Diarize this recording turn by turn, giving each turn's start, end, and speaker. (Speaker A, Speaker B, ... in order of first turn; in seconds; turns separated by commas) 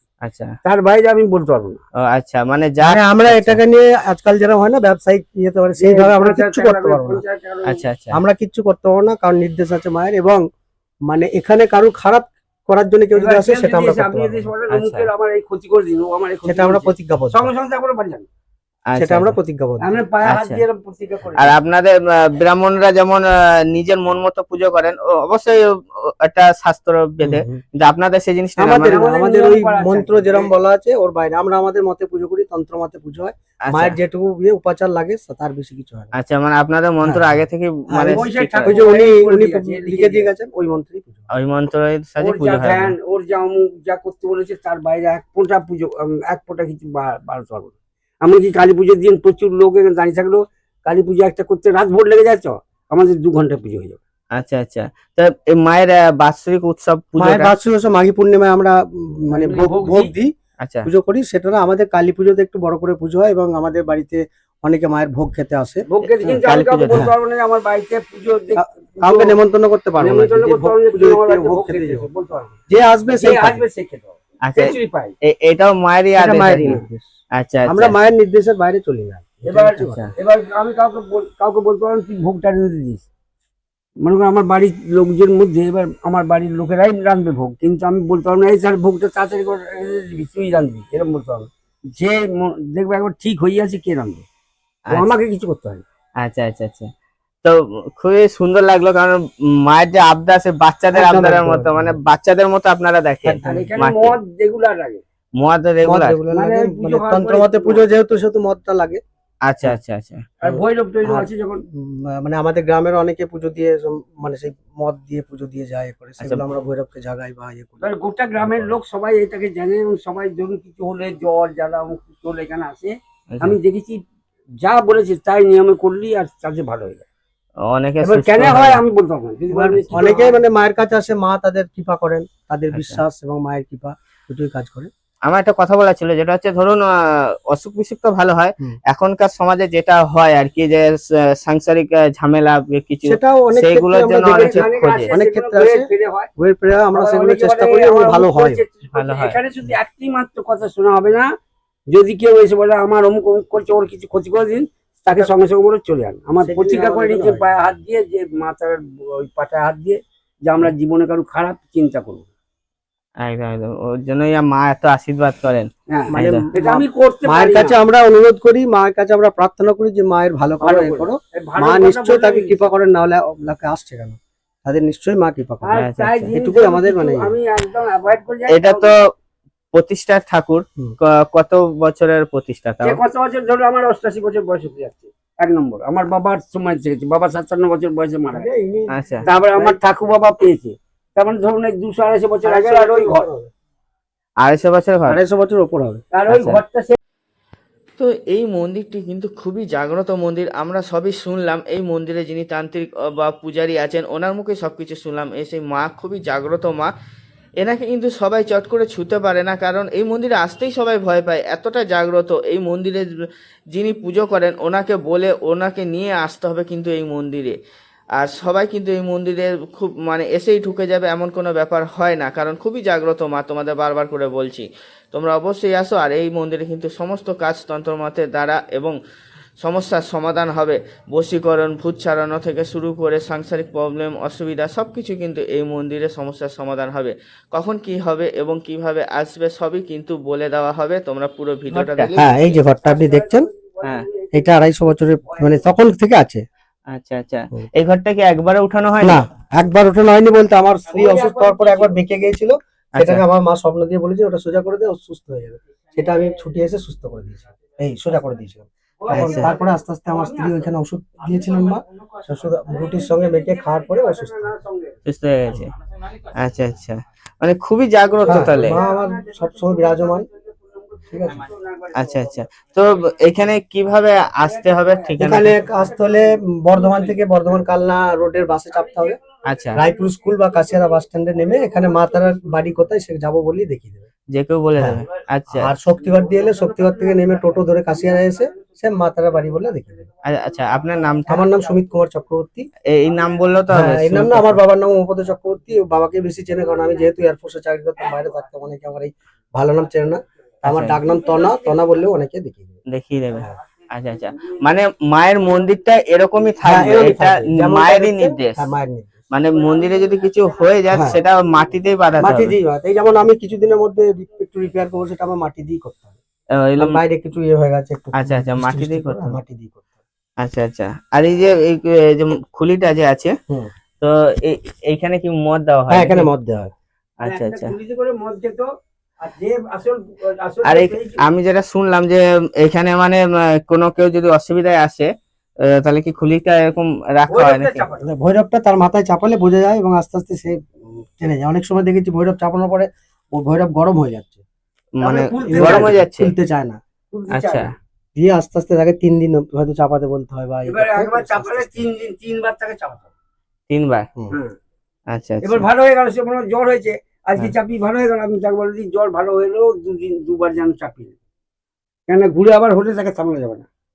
Speaker A: 0.2-0.5, Speaker B: 0.6-1.8, Speaker A: 2.0-3.6, Speaker C: 2.8-7.2, Speaker B: 5.8-7.8, Speaker A: 7.6-8.2, Speaker C: 8.1-10.4, Speaker C: 11.1-14.5, Speaker B: 13.2-18.2, Speaker A: 14.7-15.1, Speaker C: 16.4-17.5, Speaker A: 18.9-19.3, Speaker C: 18.9-20.0, Speaker B: 19.8-21.6, Speaker A: 20.2-20.6, Speaker A: 21.4-29.0, Speaker C: 27.2-27.6, Speaker C: 28.6-36.1, Speaker B: 28.8-30.5, Speaker A: 33.6-34.0, Speaker A: 36.1-38.8, Speaker C: 37.0-37.4, Speaker C: 37.9-41.3, Speaker B: 38.1-40.3, Speaker A: 41.3-42.9, Speaker B: 42.2-54.0, Speaker A: 54.4-57.5, Speaker C: 57.1-60.3, Speaker B: 59.3-60.1, Speaker A: 60.6-60.9, Speaker C: 60.8-67.1, Speaker B: 65.9-69.4, Speaker A: 66.4-67.1, Speaker C: 68.5-72.1, Speaker B: 70.0-72.6, Speaker C: 72.7-73.6, Speaker B: 73.1-75.1, Speaker A: 74.4-76.8, Speaker C: 76.2-77.1, Speaker A: 77.3-77.9, Speaker C: 77.7-80.1, Speaker B: 79.5-83.0, Speaker A: 79.8-80.1, Speaker B: 84.0-94.2, Speaker B: 94.9-95.8, Speaker A: 96.2-96.9, Speaker A: 97.4-104.2, Speaker C: 100.9-102.0, Speaker C: 103.3-103.7, Speaker B: 103.4-105.0, Speaker A: 105.4-106.2, Speaker C: 105.8-109.0, Speaker B: 106.3-107.8, Speaker A: 109.5-110.3, Speaker B: 110.4-111.6, Speaker C: 110.5-118.7, Speaker B: 117.8-124.0, Speaker A: 123.3-123.6, Speaker B: 124.6-127.0, Speaker A: 127.6-128.8, Speaker B: 128.0-130.4, Speaker C: 129.5-134.9, Speaker A: 132.7-133.0, Speaker A: 135.3-145.1, Speaker C: 143.0-148.6, Speaker B: 144.3-146.3, Speaker B: 146.9-151.2, Speaker A: 148.9-149.4, Speaker B: 151.9-162.3, Speaker C: 156.4-157.5, Speaker A: 163.2-166.4, Speaker B: 165.9-167.8, Speaker C: 166.1-177.3, Speaker B: 170.6-172.6, Speaker B: 175.6-178.9, Speaker A: 175.8-176.2, Speaker A: 178.5-179.0, Speaker A: 179.7-183.0, Speaker B: 182.8-188.4, Speaker C: 188.3-189.8, Speaker A: 188.9-189.2, Speaker B: 189.2-193.3, Speaker C: 192.4-193.5, Speaker A: 194.4-195.2, Speaker C: 195.1-196.0, Speaker B: 196.1-197.0, Speaker A: 196.3-196.6, Speaker A: 198.0-206.9, Speaker A: 207.6-213.1, Speaker A: 213.7-217.6, Speaker A: 218.2-228.9, Speaker A: 229.6-242.1, Speaker B: 241.7-245.7, Speaker C: 242.1-243.5, Speaker C: 244.3-246.4, Speaker A: 246.9-249.2, Speaker C: 249.0-264.5, Speaker B: 250.9-251.9, Speaker A: 252.9-253.2, Speaker B: 259.1-260.7, Speaker A: 259.1-259.5, Speaker B: 262.6-265.0, Speaker A: 265.1-265.7, Speaker A: 266.3-268.8, Speaker B: 268.2-272.4, Speaker C: 268.3-270.3, Speaker C: 271.1-271.5, Speaker A: 271.9-275.5, Speaker B: 274.4-277.6, Speaker C: 275.2-279.2, Speaker B: 278.7-282.8, Speaker A: 279.4-279.8, Speaker C: 279.8-284.1, Speaker A: 284.3-285.7, Speaker C: 284.8-290.0, Speaker B: 285.9-289.8, Speaker A: 290.2-291.5, Speaker C: 291.3-292.7, Speaker A: 292.9-294.6, Speaker C: 293.7-302.8, Speaker A: 300.7-301.0, Speaker B: 301.0-302.1, Speaker A: 302.9-308.7, Speaker B: 304.1-304.6, Speaker C: 306.6-309.2, Speaker B: 306.7-307.1, Speaker A: 309.3-312.5, Speaker B: 309.5-311.8, Speaker C: 310.9-311.2, Speaker C: 312.2-316.2, Speaker A: 316.6-317.0, Speaker C: 316.8-319.9, Speaker A: 318.2-319.4, Speaker A: 320.4-323.3, Speaker A: 324.0-326.3, Speaker C: 325.9-326.7, Speaker A: 327.2-327.7, Speaker B: 327.2-328.7, Speaker B: 329.2-331.2, Speaker A: 330.6-335.1, Speaker A: 335.6-337.8, Speaker B: 337.3-338.1, Speaker C: 338.0-344.4, Speaker A: 345.0-346.3, Speaker B: 345.0-346.0, Speaker C: 345.4-346.8, Speaker B: 347.1-347.7, Speaker A: 347.3-347.7, Speaker C: 348.1-351.8, Speaker B: 350.6-353.1, Speaker A: 353.7-354.1, Speaker A: 355.1-355.6, Speaker B: 355.4-361.1, Speaker B: 362.1-363.6